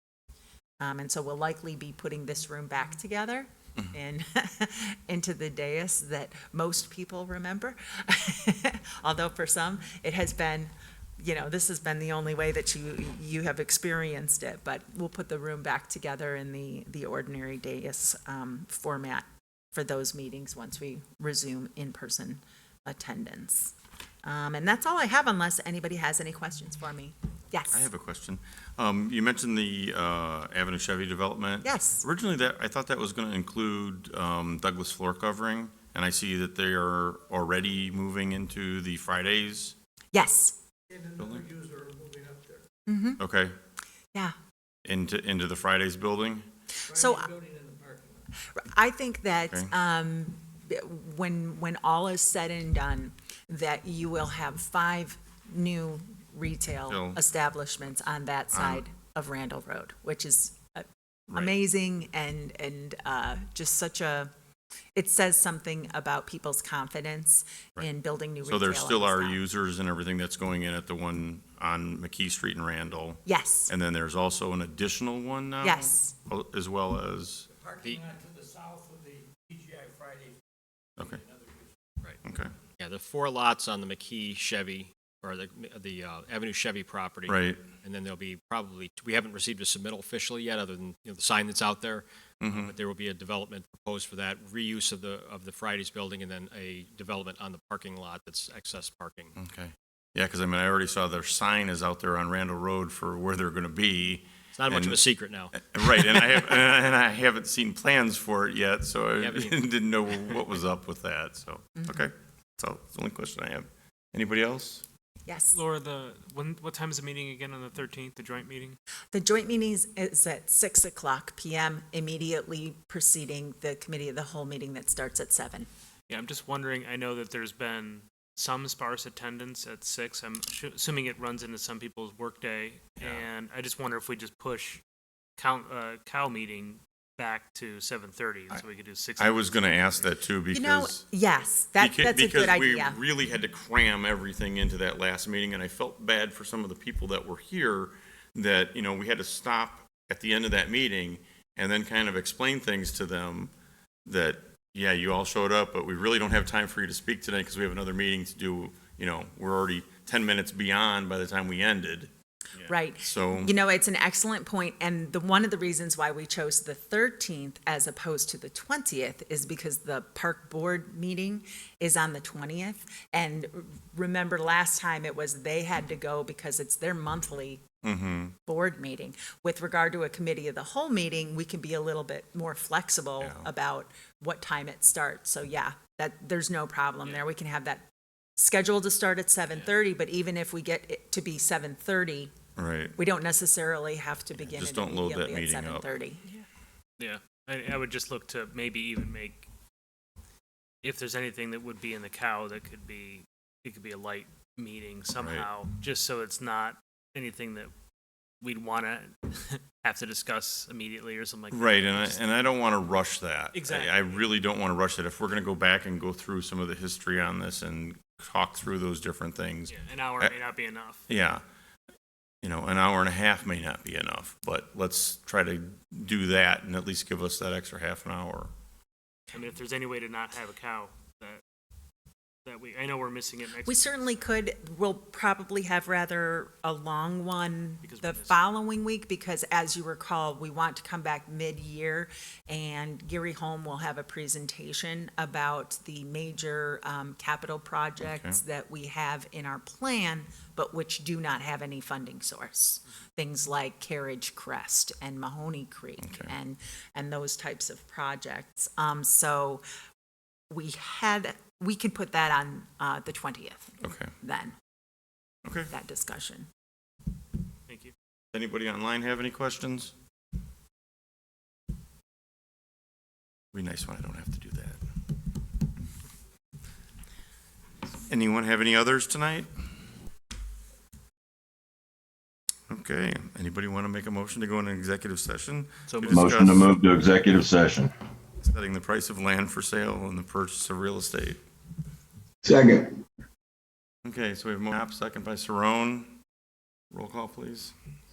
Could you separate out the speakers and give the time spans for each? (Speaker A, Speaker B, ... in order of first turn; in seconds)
Speaker A: 0.8-27.9, 31.6-32.0, 40.1-40.5, 42.9-43.2, 46.9-47.4, 48.4-64.3, 64.9-69.4, 73.2-73.7, 75.6-76.1, 111.8-112.0, 115.3-115.6, 119.1-125.7, 140.5-143.0, 162.7-177.6, 178.4-187.8, 188.4-192.3, 193.0-196.4, 233.6-259.6, 260.5-264.6, 265.7-266.5
Speaker B: 27.7-39.7, 41.2-41.5, 43.2-43.5, 44.8-46.5, 56.9-57.2, 58.5-58.8, 68.4-77.5, 81.0-81.2, 82.2-82.5, 87.3-87.6, 92.4-92.7, 99.4-114.8, 139.2-141.0, 141.8-153.5, 154.1-163.5, 177.8-178.3, 183.2-183.5, 192.6-193.0, 194.3-195.9, 205.2-205.5, 211.5-220.3, 221.1-221.4, 222.4-228.5, 248.0-248.4, 256.0-256.3, 263.8-264.1, 265.4-265.7, 268.3-269.9, 273.5-274.8, 278.1-279.5, 282.7-286.7, 288.4-291.4, 294.0-296.2, 296.9-297.7
Speaker C: 41.6-42.4, 47.3-48.0, 78.2-80.2
Speaker D: 77.8-78.2, 82.8-99.3, 104.5-105.6, 109.2-109.6
Speaker E: 115.5-118.8, 126.1-134.8, 135.4-139.6, 197.0-199.5, 200.8-207.7, 208.4-212.2, 213.5-214.1, 219.7-221.1, 229.3-231.4, 232.4-234.0, 237.8-238.4, 267.7-267.9, 285.9-286.7
Speaker F: 286.1-287.9, 292.4-293.0